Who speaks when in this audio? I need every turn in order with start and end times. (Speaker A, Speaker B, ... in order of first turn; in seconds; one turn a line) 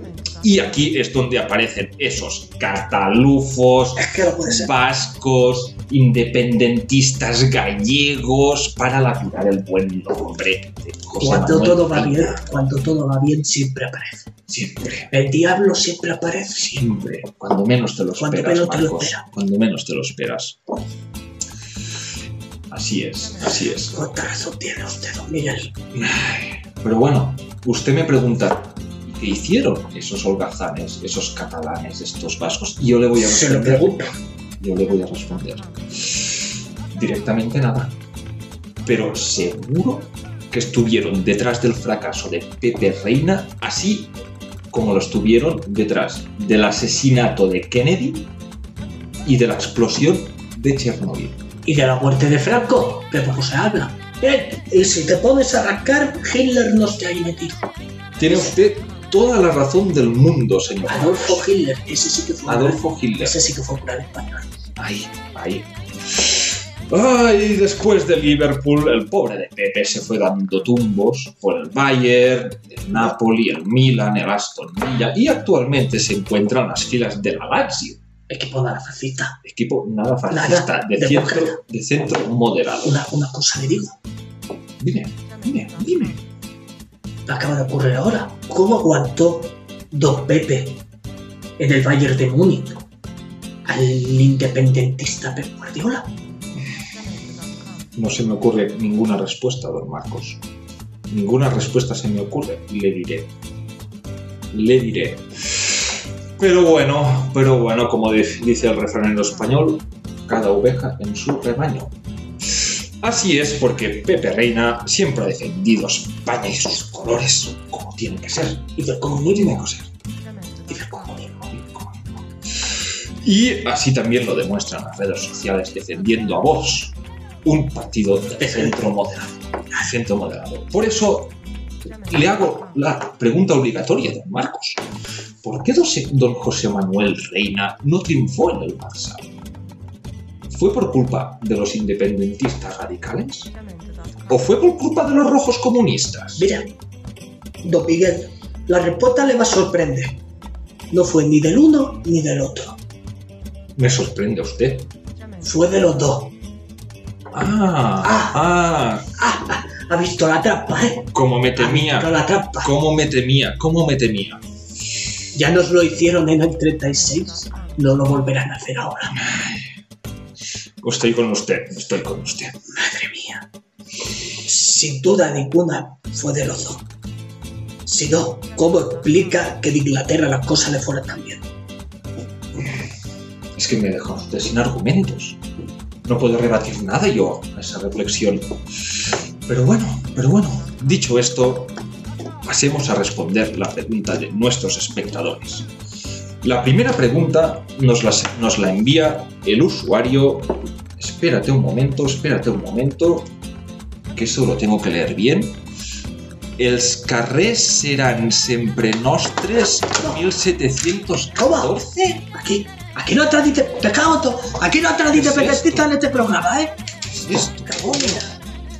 Speaker A: 0.4-12.4
Speaker B: 4.0-4.7
Speaker B: 11.2-14.3
Speaker A: 14.5-15.1
Speaker B: 15.1-16.7
Speaker A: 16.6-20.6
Speaker B: 18.2-19.2
Speaker A: 22.7-24.0
Speaker B: 23.9-25.7
Speaker A: 25.9-34.0
Speaker B: 33.2-34.1
Speaker A: 34.6-38.0
Speaker A: 38.8-44.1
Speaker A: 44.7-48.3
Speaker A: 49.2-51.4
Speaker B: 51.6-57.7
Speaker A: 58.2-61.5
Speaker B: 60.9-64.5
Speaker A: 62.5-63.4
Speaker A: 64.8-78.0
Speaker B: 78.3-79.4
Speaker A: 79.4-83.0
Speaker B: 80.3-81.6
Speaker B: 82.8-84.0
Speaker A: 84.8-86.2
Speaker B: 87.3-90.8
Speaker B: 91.6-92.9
Speaker B: 93.7-96.1
Speaker A: 98.0-100.4
Speaker A: 101.1-103.3
Speaker A: 104.5-111.9
Speaker A: 112.5-119.9
Speaker B: 118.8-119.6
Speaker B: 120.7-121.4
Speaker A: 121.5-131.3
Speaker B: 128.4-128.9
Speaker A: 132.1-134.8
Speaker A: 135.4-139.3
Speaker A: 140.5-143.5
Speaker A: 144.3-146.4
Speaker B: 146.4-146.7
Speaker B: 147.6-150.2
Speaker B: 150.9-152.8
Speaker A: 153.8-154.9
Speaker B: 155.4-156.3
Speaker A: 157.3-159.1
Speaker B: 158.0-158.4
Speaker B: 159.2-162.7
Speaker A: 161.1-164.4
Speaker B: 165.3-169.1
Speaker A: 169.1-169.8
Speaker A: 170.8-172.6
Speaker B: 172.7-173.5
Speaker B: 174.4-176.9
Speaker B: 177.9-181.4
Speaker A: 183.6-185.4
Speaker A: 186.1-191.7
Speaker A: 192.4-195.7
Speaker A: 196.4-203.3
Speaker A: 204.1-205.6
Speaker A: 206.6-212.2
Speaker B: 211.4-216.8
Speaker A: 215.1-215.9
Speaker A: 217.2-218.4
Speaker B: 217.7-218.3